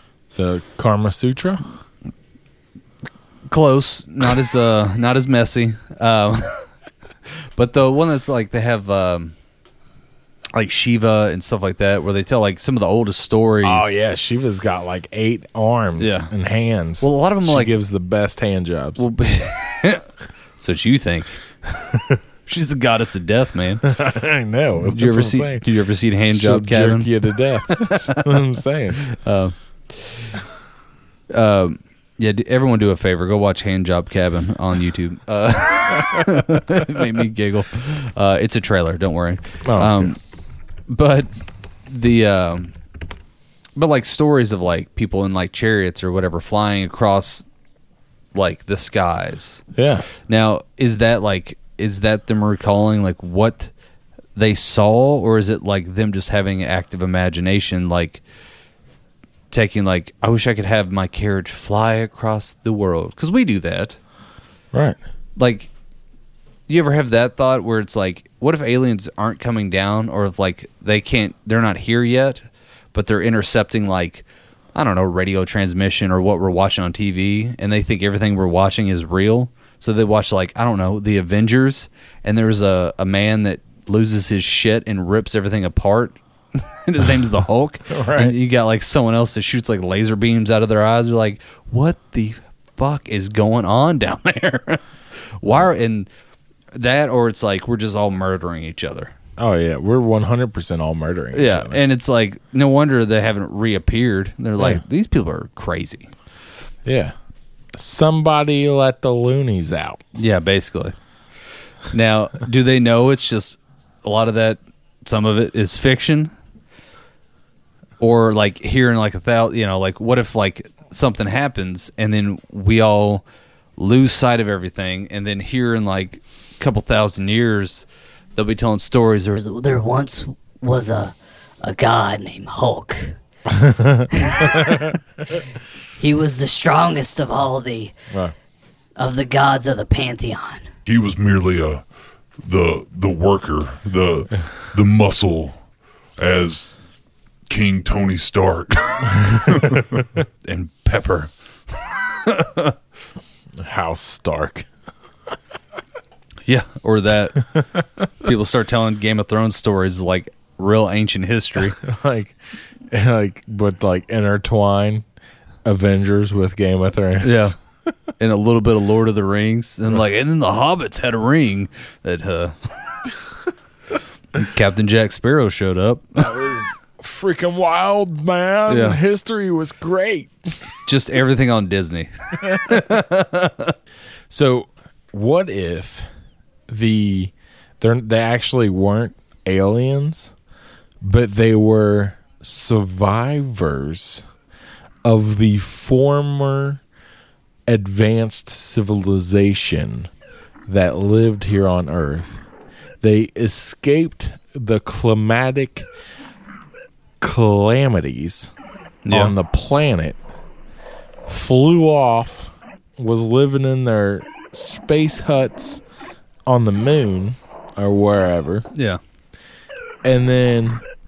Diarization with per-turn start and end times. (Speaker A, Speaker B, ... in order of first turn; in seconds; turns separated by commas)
Speaker A: 0.3-1.6, Speaker B: 3.5-6.7, Speaker B: 7.6-9.3, Speaker B: 10.5-13.9, Speaker A: 13.6-19.1, Speaker B: 16.0-16.3, Speaker B: 17.0-17.7, Speaker B: 19.0-20.1, Speaker B: 20.6-21.4, Speaker B: 22.5-23.8, Speaker A: 23.8-25.7, Speaker B: 24.9-27.1, Speaker A: 26.3-29.0, Speaker B: 27.7-28.0, Speaker B: 29.1-30.1, Speaker B: 31.3-40.2, Speaker A: 39.6-40.1, Speaker B: 40.9-41.3, Speaker B: 41.9-42.7, Speaker B: 43.8-47.5, Speaker B: 48.3-49.6, Speaker A: 49.8-50.1, Speaker B: 50.3-53.7, Speaker B: 54.4-58.2, Speaker B: 59.5-64.0, Speaker A: 64.7-65.0, Speaker B: 65.4-65.7, Speaker B: 66.7-72.4, Speaker B: 72.9-94.8, Speaker A: 87.9-88.4, Speaker B: 95.4-96.1, Speaker B: 96.7-99.1, Speaker A: 99.4-101.8, Speaker B: 101.3-106.1, Speaker A: 106.8-107.2, Speaker A: 107.8-110.0, Speaker B: 110.2-111.0, Speaker B: 111.9-116.3, Speaker B: 118.0-123.2, Speaker B: 123.8-129.4, Speaker C: 129.4-133.1, Speaker A: 133.6-134.1, Speaker C: 134.1-134.8, Speaker C: 136.0-137.9, Speaker C: 139.0-140.7, Speaker D: 140.9-141.8, Speaker D: 142.4-145.6, Speaker D: 146.2-146.8, Speaker D: 147.5-150.1, Speaker B: 150.4-151.3, Speaker B: 152.3-152.7, Speaker A: 153.6-154.7, Speaker B: 156.5-157.5, Speaker B: 158.2-161.8, Speaker A: 161.7-162.4, Speaker A: 162.9-165.1, Speaker A: 165.7-167.6, Speaker B: 167.2-167.6, Speaker B: 168.2-172.6, Speaker B: 174.3-176.2, Speaker A: 176.2-180.3, Speaker B: 178.7-179.0, Speaker B: 180.9-183.7, Speaker A: 184.3-186.1, Speaker A: 186.7-190.3, Speaker A: 191.0-194.2, Speaker A: 195.0-196.8, Speaker A: 197.7-200.1, Speaker A: 200.7-202.4, Speaker A: 203.0-205.9, Speaker A: 207.2-208.5, Speaker B: 209.1-209.3, Speaker A: 209.1-210.2, Speaker A: 211.3-215.8, Speaker A: 216.5-218.7, Speaker B: 218.7-219.0, Speaker A: 220.0-220.8